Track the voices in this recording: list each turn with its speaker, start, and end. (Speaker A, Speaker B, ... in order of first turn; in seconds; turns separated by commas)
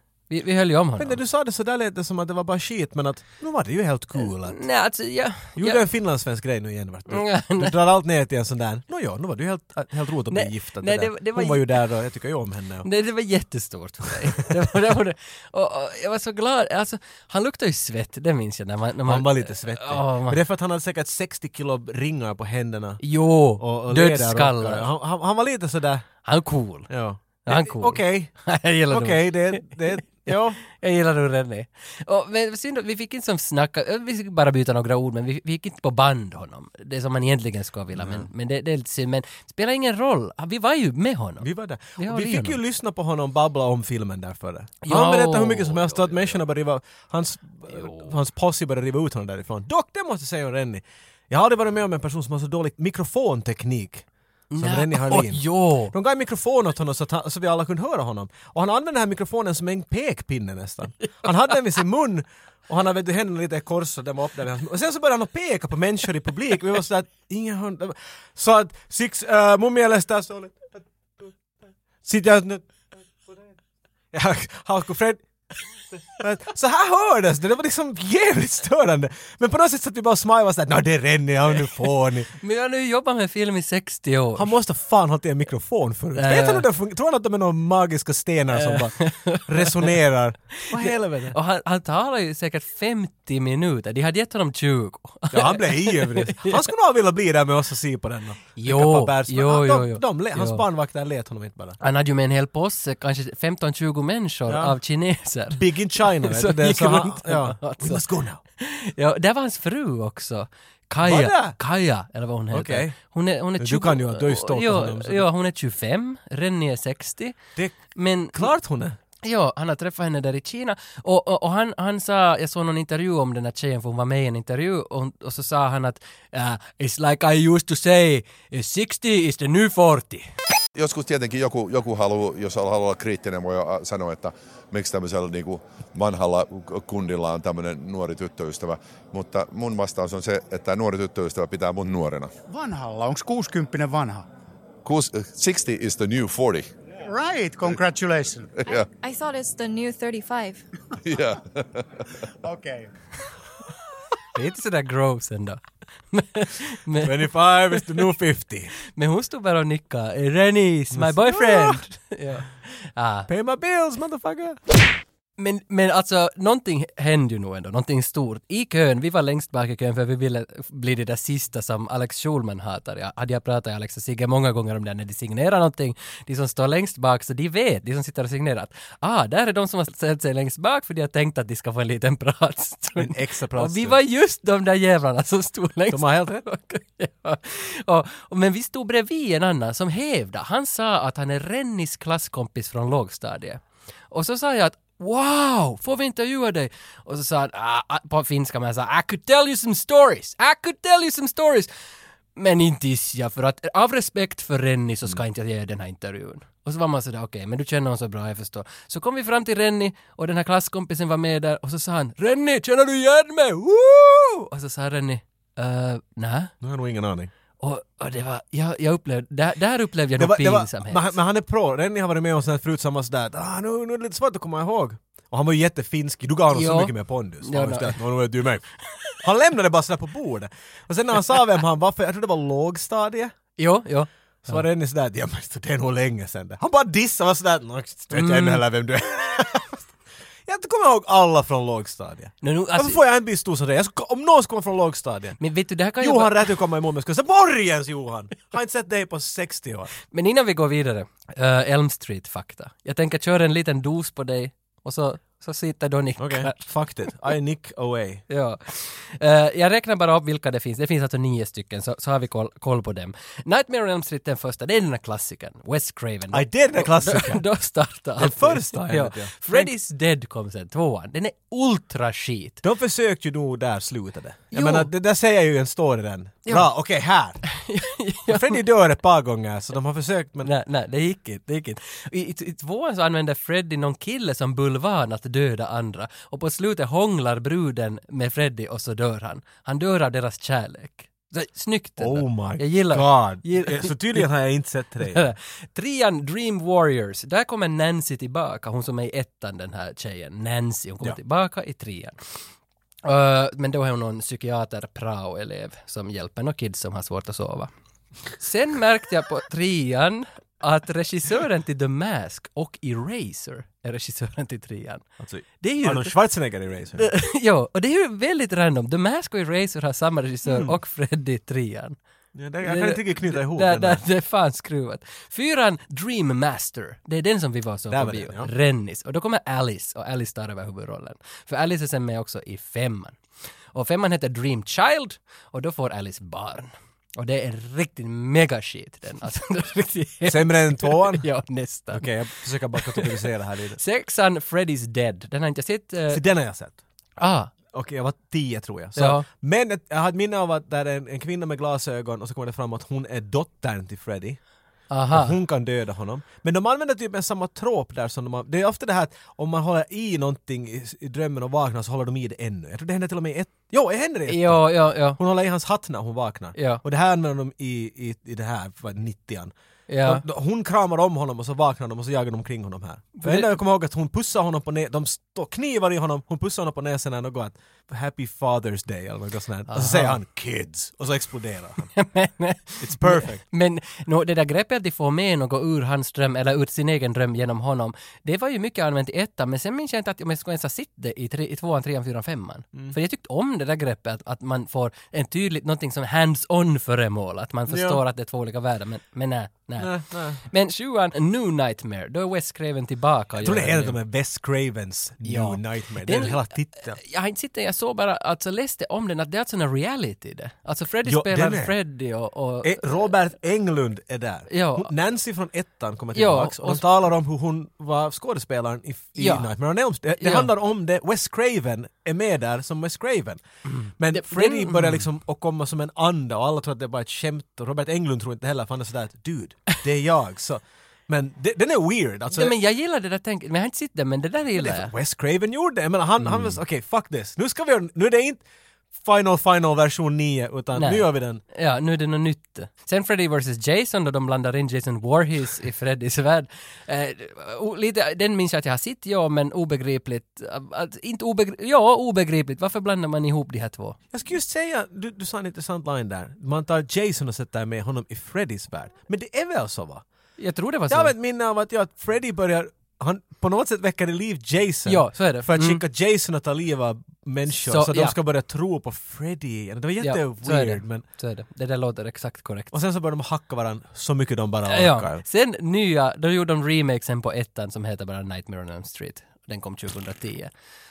Speaker A: 0.3-1.2, Speaker B: 1.0-4.6, Speaker A: 4.2-5.8, Speaker B: 5.5-12.9, Speaker A: 7.1-7.7, Speaker A: 10.3-11.7, Speaker A: 12.8-20.4, Speaker B: 19.1-23.0, Speaker A: 23.0-24.9, Speaker B: 23.6-26.0, Speaker A: 26.2-26.9, Speaker B: 26.9-28.3, Speaker A: 27.4-41.5, Speaker B: 28.9-30.6, Speaker B: 38.0-38.3, Speaker B: 41.4-54.0, Speaker A: 42.0-42.6, Speaker A: 44.8-46.4, Speaker A: 47.7-48.1, Speaker A: 54.5-55.9, Speaker B: 54.6-71.3, Speaker B: 72.0-72.7, Speaker B: 74.1-75.2, Speaker B: 76.2-82.3, Speaker A: 82.4-84.5, Speaker B: 84.4-91.4, Speaker A: 86.2-86.6, Speaker A: 88.5-89.9, Speaker A: 90.7-96.6, Speaker B: 95.3-101.8, Speaker A: 98.6-100.6, Speaker A: 101.8-108.0, Speaker B: 104.5-104.8, Speaker B: 105.5-108.4, Speaker A: 108.6-117.4, Speaker B: 111.0-111.5, Speaker B: 112.5-112.9, Speaker B: 113.6-115.2, Speaker A: 117.9-118.5, Speaker B: 118.3-119.0, Speaker A: 119.2-130.3, Speaker C: 130.7-142.4, Speaker D: 142.5-144.2, Speaker C: 144.8-146.7, Speaker D: 147.1-148.5, Speaker E: 148.7-150.6, Speaker C: 151.0-152.1, Speaker D: 152.4-152.9, Speaker A: 154.3-155.6, Speaker A: 156.1-158.1, Speaker B: 157.0-158.7, Speaker A: 158.9-163.3, Speaker B: 160.9-161.8, Speaker B: 163.3-164.6, Speaker A: 165.4-201.7, Speaker B: 183.0-184.0, Speaker B: 185.9-186.4, Speaker A: 202.3-216.5, Speaker B: 216.6-217.3, Speaker A: 217.6-221.1, Speaker B: 220.2-233.3, Speaker A: 226.5-228.0, Speaker A: 233.6-234.6, Speaker B: 234.5-239.8, Speaker A: 238.1-238.6, Speaker B: 240.4-245.4, Speaker A: 242.4-243.0, Speaker A: 245.4-246.5, Speaker B: 246.0-249.9, Speaker A: 250.1-256.6, Speaker B: 256.2-258.2, Speaker A: 258.3-272.6, Speaker B: 266.3-267.4, Speaker B: 268.2-269.7, Speaker B: 272.6-277.4, Speaker A: 274.5-274.9, Speaker A: 277.5-278.6, Speaker B: 278.3-280.5, Speaker A: 280.4-294.3, Speaker B: 292.0-295.3, Speaker A: 295.0-302.4, Speaker A: 303.0-307.7, Speaker A: 308.4-315.1, Speaker B: 315.2-317.1, Speaker A: 315.6-316.1, Speaker A: 317.0-321.9, Speaker B: 320.5-320.7, Speaker B: 322.3-324.0, Speaker A: 322.6-333.2, Speaker B: 327.9-328.5, Speaker A: 333.7-346.2, Speaker B: 340.3-341.2, Speaker B: 341.9-343.8, Speaker B: 346.1-346.8, Speaker A: 347.2-347.5, Speaker B: 347.7-354.4, Speaker A: 348.9-349.2, Speaker A: 354.9-355.4, Speaker B: 355.1-369.5, Speaker A: 364.3-365.2, Speaker A: 366.5-366.8, Speaker A: 369.9-370.2, Speaker B: 370.0-381.9, Speaker A: 373.2-373.6, Speaker A: 379.7-380.2, Speaker A: 381.9-404.0, Speaker B: 382.8-383.4, Speaker B: 397.7-398.0, Speaker B: 399.8-400.4, Speaker B: 403.4-407.0, Speaker A: 405.2-413.1, Speaker B: 411.1-411.7, Speaker B: 412.6-423.4, Speaker A: 414.5-414.9, Speaker A: 416.1-416.8, Speaker A: 419.2-419.5, Speaker A: 420.0-420.5, Speaker A: 423.8-425.1, Speaker B: 424.0-432.6, Speaker A: 432.3-434.9, Speaker B: 434.6-438.4, Speaker A: 436.2-436.6, Speaker B: 439.0-441.4, Speaker A: 440.8-454.0, Speaker B: 454.1-460.0, Speaker A: 460.4-461.1, Speaker B: 460.9-471.0, Speaker A: 464.9-465.8, Speaker A: 467.7-468.1, Speaker A: 470.0-472.7, Speaker B: 472.7-475.2, Speaker A: 474.7-480.5